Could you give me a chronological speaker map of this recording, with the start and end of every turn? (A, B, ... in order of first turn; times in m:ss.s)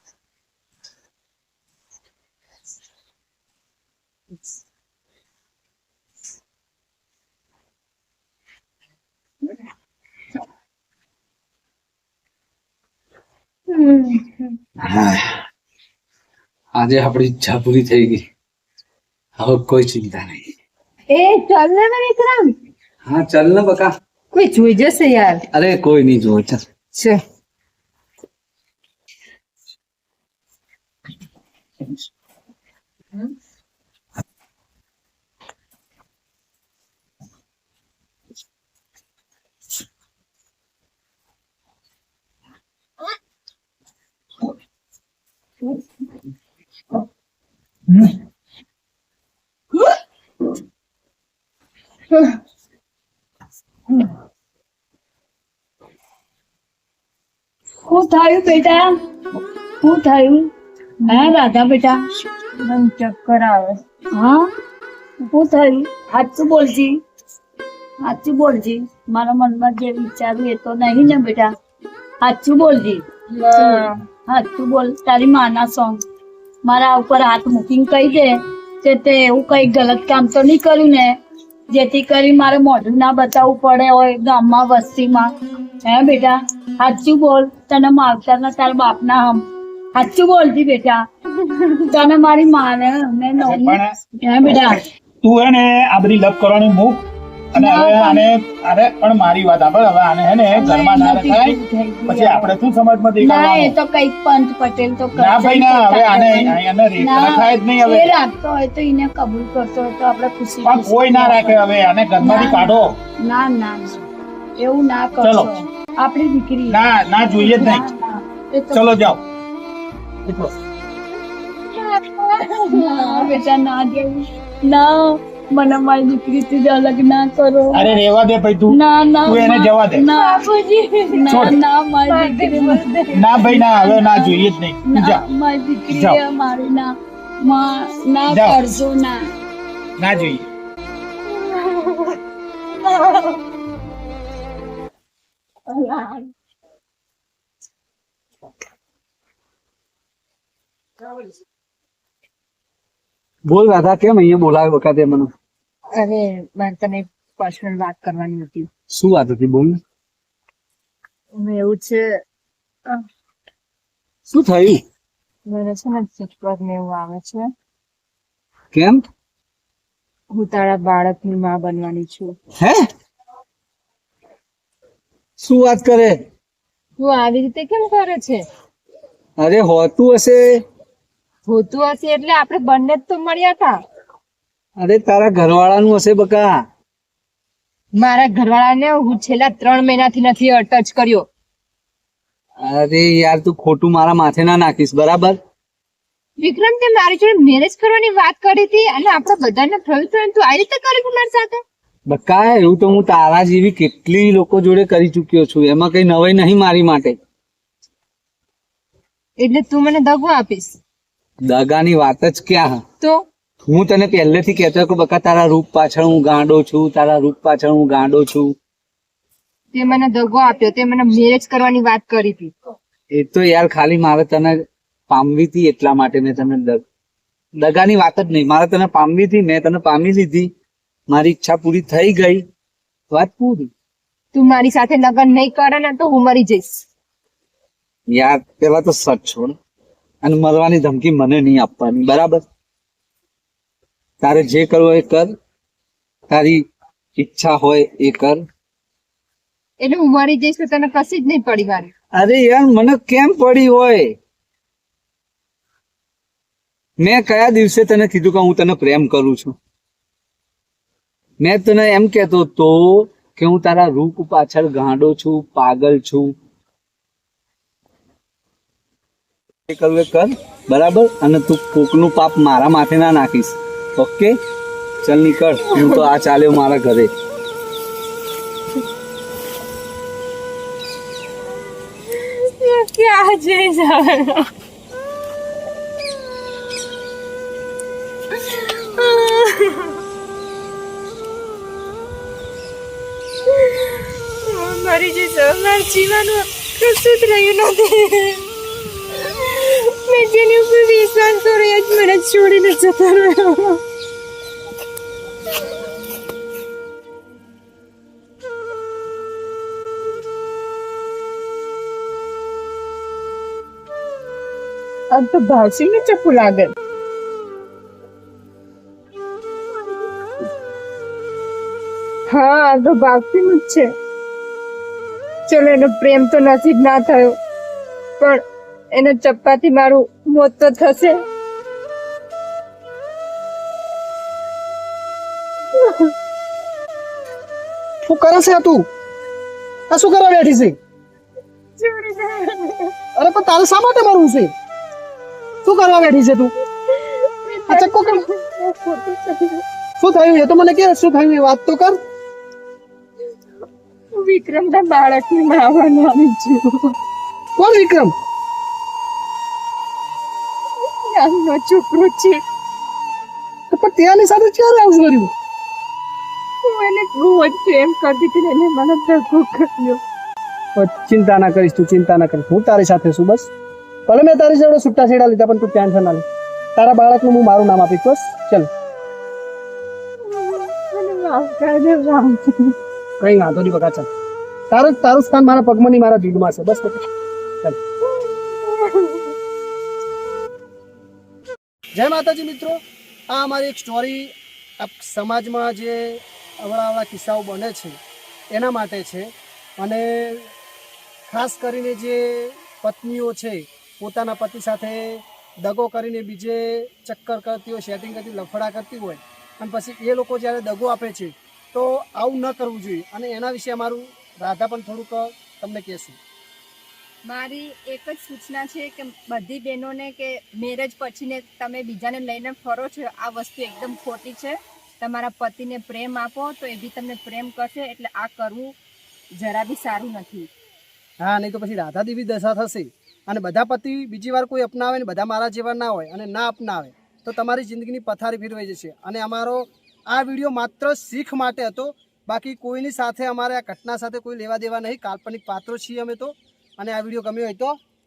0:13.7-0:14.6 A
0:14.8-0:15.4 B
0:16.8-0:18.2 B
0:19.4-0:20.5 B
0:21.1-0:22.5 A
0:23.0-0:23.9 B
0:24.3-0:25.4 A
0:25.5-0:26.6 B
0:26.9-0:27.2 A
0:57.9-0:58.9 C
0:59.8-1:00.5 C
1:01.1-1:01.3 A
1:01.1-1:02.0 C
1:02.6-1:03.8 A
1:04.1-1:04.5 C
1:05.3-1:07.0 C
1:08.0-1:11.5 C
1:12.2-1:16.0 C
1:13.3-1:14.0 A
1:16.6-1:21.2 C
1:21.7-1:25.3 C
1:25.8-1:31.0 C
1:31.4-1:32.0 A
1:31.9-1:34.8 C
1:33.4-1:33.9 D
1:35.2-1:43.8 D
1:37.6-1:38.3 C
1:40.5-1:42.6 C
1:43.2-1:51.7 C
1:45.2-1:48.2 D
1:50.6-1:53.0 D
1:52.2-1:54.0 C
1:54.6-1:59.0 C
1:55.2-1:55.5 D
1:56.7-1:57.9 D
1:58.7-1:59.2 D
2:00.3-2:00.5 D
2:01.6-2:03.4 A
2:02.7-2:08.0 C
2:07.7-2:10.1 D
2:08.7-2:10.4 C
2:10.0-2:13.5 A
2:11.1-2:12.9 C
2:11.3-2:11.6 D
2:13.1-2:15.2 D
2:13.5-2:19.2 C
2:15.9-2:16.2 D
2:18.3-2:18.6 D
2:20.0-2:20.4 D
2:21.3-2:22.2 A
2:22.7-2:23.4 A
2:25.7-2:26.3 A
2:33.5-2:35.3 B
2:36.0-2:38.7 A
2:38.9-2:39.8 B
2:41.4-2:42.1 A
2:44.3-2:44.8 B
2:45.5-2:47.5 A
2:48.7-2:49.0 B
2:50.3-2:52.3 A
2:55.4-2:56.2 B
2:57.0-2:58.4 A
2:59.4-3:00.4 B
3:01.5-3:03.8 A
3:04.8-3:06.5 B
3:08.0-3:11.3 A
3:12.6-3:15.4 B
3:16.4-3:21.6 A
3:22.1-3:27.2 B
3:29.4-3:30.8 A
3:31.5-3:32.8 B
3:33.0-3:33.2 A
3:33.6-3:38.5 B
3:39.7-3:42.5 A
3:43.1-3:44.6 B
3:45.1-3:46.8 B
3:47.6-3:50.5 B
3:51.1-3:52.4 B
3:53.1-3:53.7 B
3:54.3-3:56.9 A
3:58.1-3:59.5 B
4:00.2-4:02.4 B
4:04.2-4:05.3 B
4:06.3-4:06.6 B
4:07.2-4:08.4 B
4:09.8-4:11.9 A
4:12.2-4:14.1 B
4:17.0-4:19.6 B
4:21.4-4:26.3 B
4:29.7-4:34.3 B
4:35.0-4:37.1 B
4:35.7-4:36.0 A
4:42.1-4:44.5 A
4:48.6-4:50.0 A
4:53.5-4:58.4 A
4:59.3-5:03.8 A
5:15.1-5:16.7 A
5:22.3-5:23.9 A
5:25.5-5:27.4 A
5:28.2-5:31.2 A
5:38.0-5:38.8 E
5:39.9-5:40.7 E
5:41.8-5:42.9 A
5:43.2-5:44.5 E
5:45.6-5:46.5 E
5:46.9-5:49.6 A
5:47.7-5:48.2 E
5:50.0-5:52.0 E
5:54.2-5:57.0 A
5:57.6-5:58.1 E
6:01.0-6:02.4 A
6:03.7-6:05.3 E
6:06.6-6:10.0 A
6:10.8-6:13.5 E
6:14.1-6:16.2 E
6:16.8-6:18.7 E
6:20.2-6:22.8 A
6:23.2-6:24.1 E
6:24.7-6:27.0 E
6:28.1-6:29.3 A
6:32.0-6:32.8 E
6:33.3-6:38.0 E
6:38.5-6:40.5 E
6:41.3-6:56.2 E
6:57.3-7:08.8 A
7:09.4-7:10.5 A
7:11.2-7:27.8 E